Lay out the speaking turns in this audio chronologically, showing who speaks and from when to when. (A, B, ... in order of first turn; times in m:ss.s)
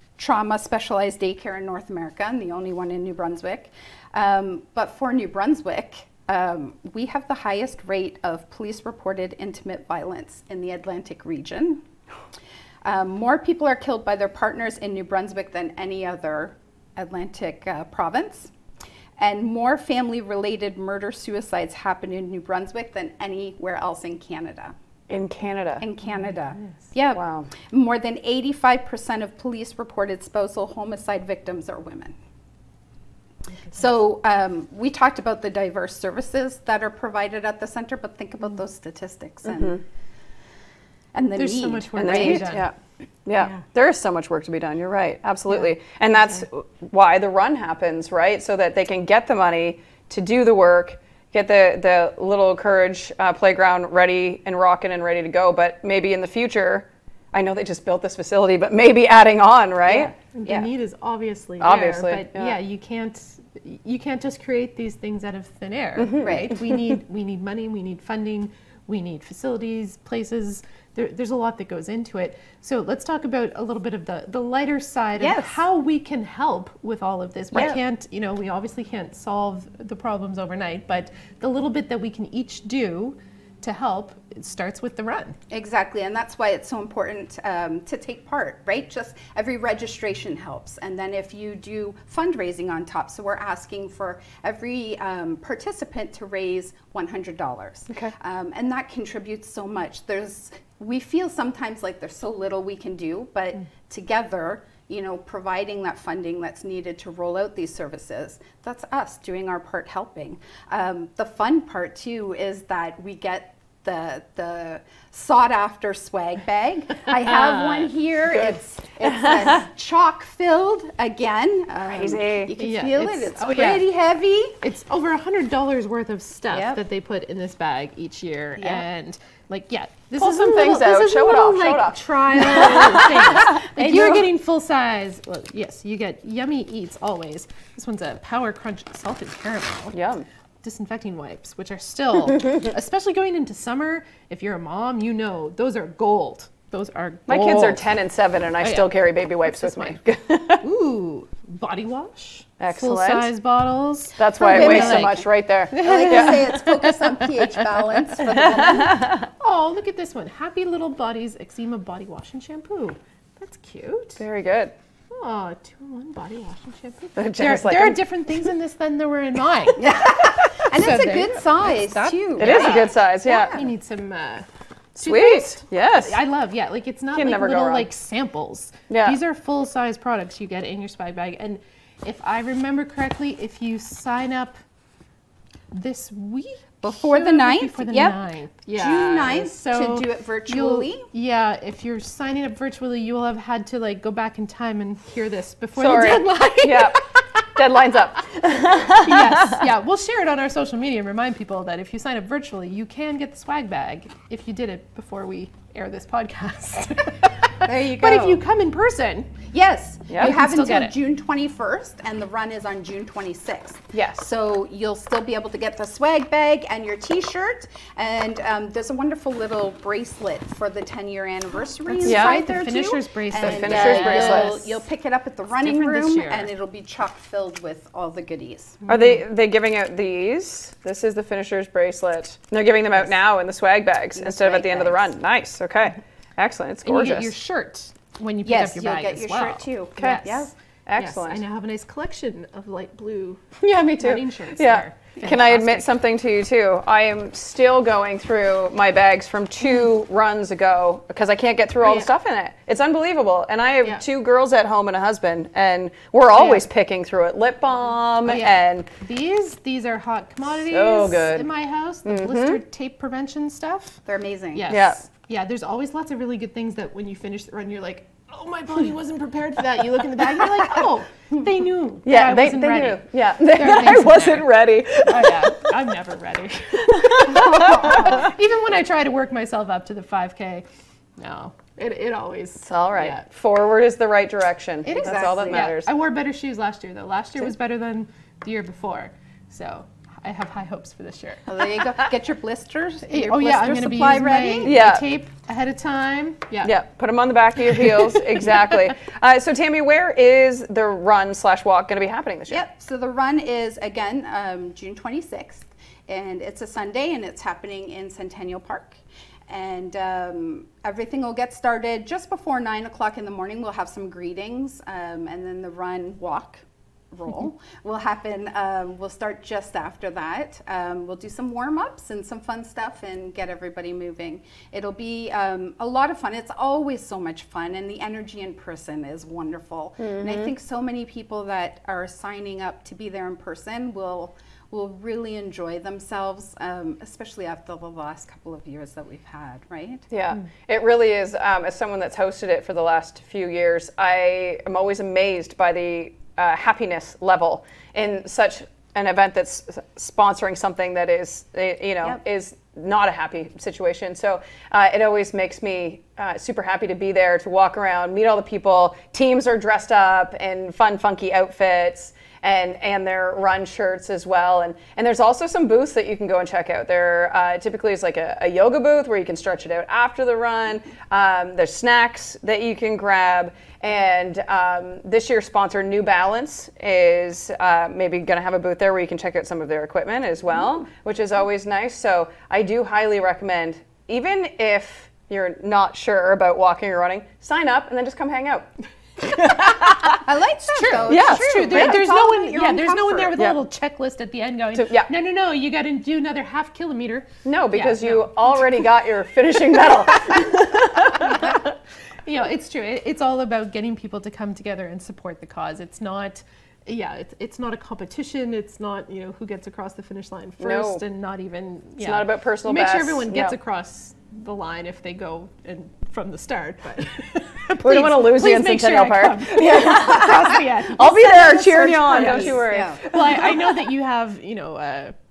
0:00.2-0:11.8 A
0:12.8-0:18.5 A
0:19.2-0:24.8 A
0:25.1-0:25.8 B
0:25.8-0:32.2 A
0:26.2-0:26.7 C
0:27.1-0:27.5 B
0:33.7-0:39.8 A
0:39.5-0:39.8 B
0:41.1-0:42.5 A
0:41.4-0:42.7 C
0:42.0-1:00.1 B
0:59.9-1:00.7 A
1:00.3-1:25.4 C
1:01.6-1:02.6 B
1:06.0-1:06.8 B
1:06.2-1:06.5 A
1:15.2-1:15.6 A
1:25.5-2:04.6 A
1:58.3-1:59.6 B
2:01.9-2:02.5 B
2:02.6-2:03.9 C
2:04.6-2:20.0 C
2:06.5-2:06.8 A
2:10.2-2:14.3 B
2:19.9-2:20.2 B
2:20.6-2:27.9 C
2:27.3-2:30.6 B
2:28.6-2:30.0 C
2:30.6-2:37.3 C
2:32.6-2:33.3 B
2:34.2-2:36.5 B
2:34.4-2:39.2 A
2:39.4-2:44.2 C
2:44.2-2:44.7 B
2:45.1-3:04.6 C
2:47.2-2:48.0 B
2:49.8-2:53.6 A
2:52.4-2:53.6 B
2:55.0-2:56.2 B
2:57.1-2:57.9 B
2:58.9-2:59.2 B
3:05.7-3:17.4 C
3:06.8-3:08.2 A
3:08.7-3:11.1 A
3:15.8-3:19.7 B
3:19.0-3:29.3 C
3:27.6-3:28.4 A
3:29.5-3:48.8 A
3:30.2-3:31.0 C
3:33.9-3:34.2 B
3:41.9-3:44.8 C
3:42.1-3:42.4 B
3:43.4-3:44.6 B
3:45.6-3:46.5 C
3:48.9-3:57.3 B
3:54.2-3:55.1 A
3:56.8-4:05.9 C
3:58.4-4:00.5 A
4:00.0-4:01.4 B
4:03.6-4:18.9 B
4:11.8-4:12.1 C
4:16.3-4:16.6 C
4:18.3-4:24.0 C
4:20.7-4:21.5 B
4:22.0-4:22.6 B
4:24.1-4:24.7 A
4:24.6-4:34.5 C
4:24.7-4:25.0 B
4:32.1-4:35.8 B
4:35.0-4:40.6 C
4:36.8-4:38.3 B
4:37.3-4:38.3 A
4:41.2-4:43.2 C
4:42.7-4:45.9 B
4:44.8-4:51.8 C
4:44.9-4:45.7 A
4:51.5-4:54.8 A
4:53.1-4:56.7 C
4:54.6-4:55.0 B
4:56.6-5:02.7 B
4:57.8-4:58.2 C
5:02.5-5:40.1 A
5:30.0-5:30.5 B
5:40.1-6:30.2 B
6:30.2-6:33.4 A
6:30.6-6:38.6 C
6:31.1-6:32.0 B
6:34.7-6:35.1 B
6:37.4-6:41.7 B
6:40.9-7:05.1 C
6:50.6-6:51.0 B
6:52.0-6:53.6 B
6:57.8-7:03.8 B
7:02.2-7:03.0 A